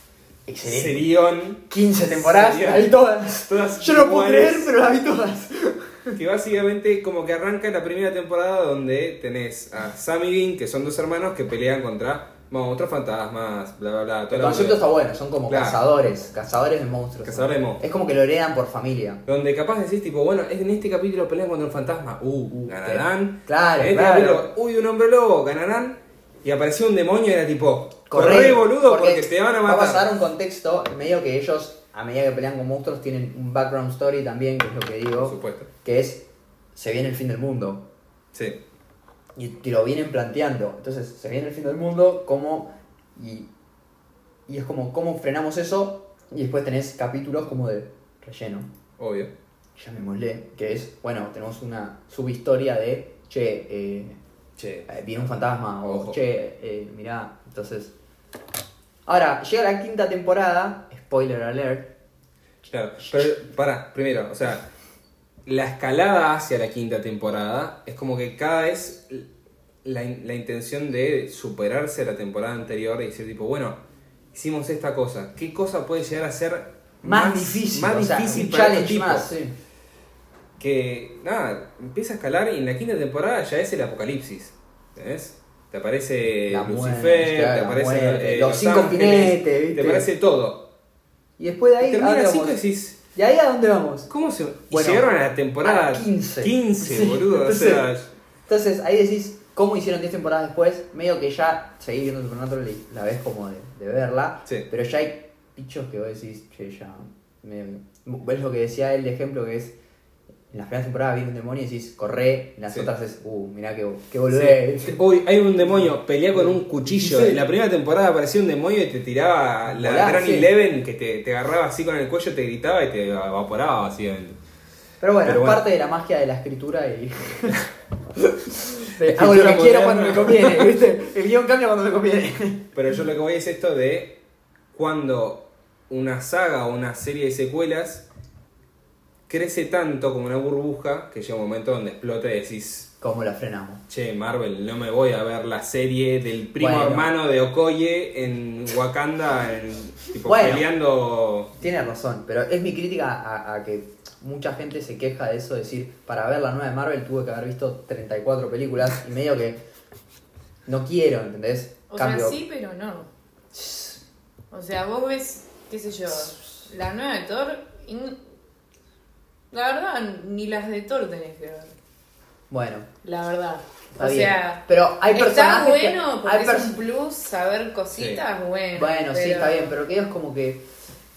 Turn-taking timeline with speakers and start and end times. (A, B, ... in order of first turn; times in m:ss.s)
0:00.4-0:01.1 A
0:00.6-0:04.7 B
0:01.7-0:06.2 A
0:06.1-0:14.8 B
0:14.3-0:19.2 A
0:15.5-0:15.8 B
0:17.2-0:17.8 B
0:19.2-0:30.1 B
0:22.6-0:24.5 A
0:28.1-0:37.9 A
0:35.2-0:35.7 B
0:38.3-0:38.6 B
0:39.3-0:43.5 A
0:44.5-0:48.7 A
0:49.0-0:49.3 B
0:49.7-0:54.2 A
0:54.6-0:56.2 B
0:54.9-0:57.9 A
0:59.0-1:02.0 A
1:02.6-1:04.7 B
1:05.4-1:09.3 B
1:09.8-1:13.8 B
1:14.3-1:19.3 B
1:17.0-1:19.6 A
1:20.6-1:30.7 B
1:26.5-1:30.1 A
1:31.4-1:32.6 A
1:31.8-1:33.0 B
1:33.1-1:34.1 A
1:34.1-1:38.1 B
1:34.7-1:35.1 A
1:35.6-1:37.8 A
1:38.5-1:49.8 A
1:50.5-1:55.0 A
1:54.3-2:04.4 B
1:55.6-1:57.4 A
1:59.7-2:00.5 A
2:05.0-2:07.6 A
2:05.2-2:05.6 B
2:08.5-2:12.7 A
2:09.0-2:10.7 B
2:12.7-2:14.2 B
2:14.7-2:18.0 B
2:19.3-2:22.9 B
2:23.0-2:23.8 A
2:23.9-2:31.5 B
2:26.6-2:27.1 A
2:30.2-2:30.7 A
2:31.6-2:39.6 A
2:40.6-2:42.4 A
2:41.9-2:43.1 C
2:43.5-2:44.0 A
2:44.5-2:48.2 C
2:49.5-2:51.7 C
2:52.5-2:52.9 A
2:53.0-2:59.8 C
2:53.9-2:56.8 A
2:57.9-2:58.2 B
2:58.7-3:00.7 A